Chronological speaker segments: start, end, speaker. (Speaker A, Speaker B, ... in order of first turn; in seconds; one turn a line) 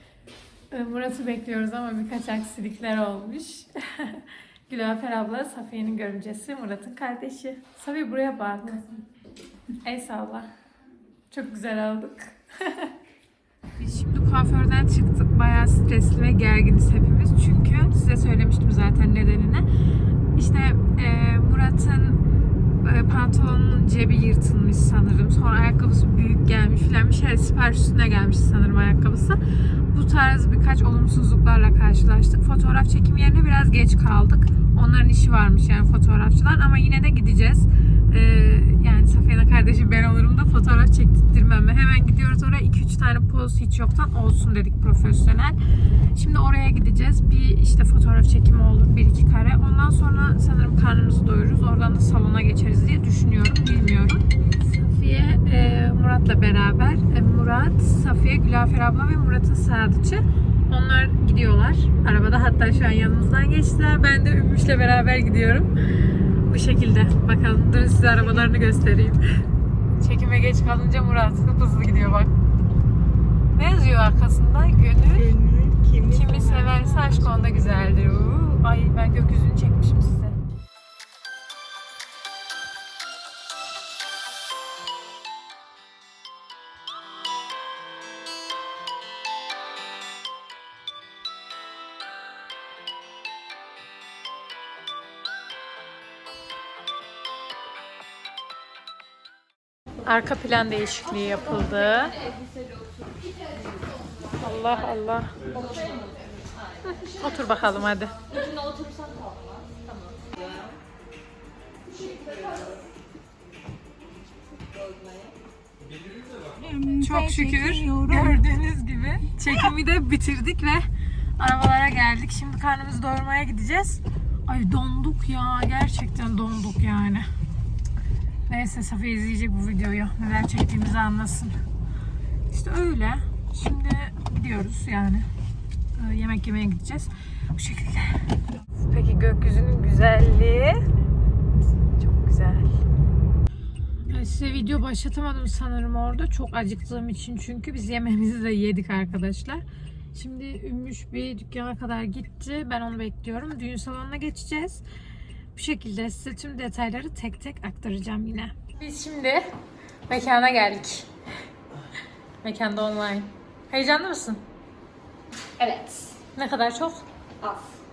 Speaker A: 0.7-9.0
Speaker A: 9.7-10.5
Speaker A: 11.3-12.9
Speaker A: 13.8-19.6
Speaker A: 20.3-22.2
Speaker A: 22.8-45.6
Speaker A: 46.1-69.3
Speaker A: 70.0-72.3
Speaker A: 73.5-75.3
Speaker B: 75.1-77.5
Speaker A: 76.1-80.4
Speaker A: 100.0-102.2
Speaker A: 104.3-105.7
Speaker B: 105.5-106.1
Speaker A: 106.8-108.2
Speaker B: 108.3-110.2
Speaker B: 116.5-118.4
Speaker A: 117.0-127.3
Speaker A: 128.5-131.6
Speaker A: 132.5-135.3
Speaker A: 136.0-140.9
Speaker A: 141.6-142.8
Speaker A: 144.1-154.8
Speaker A: 155.5-159.5
Speaker A: 160.1-161.1
Speaker A: 162.4-164.4
Speaker B: 165.6-166.2
Speaker A: 166.2-167.0
Speaker B: 167.4-167.7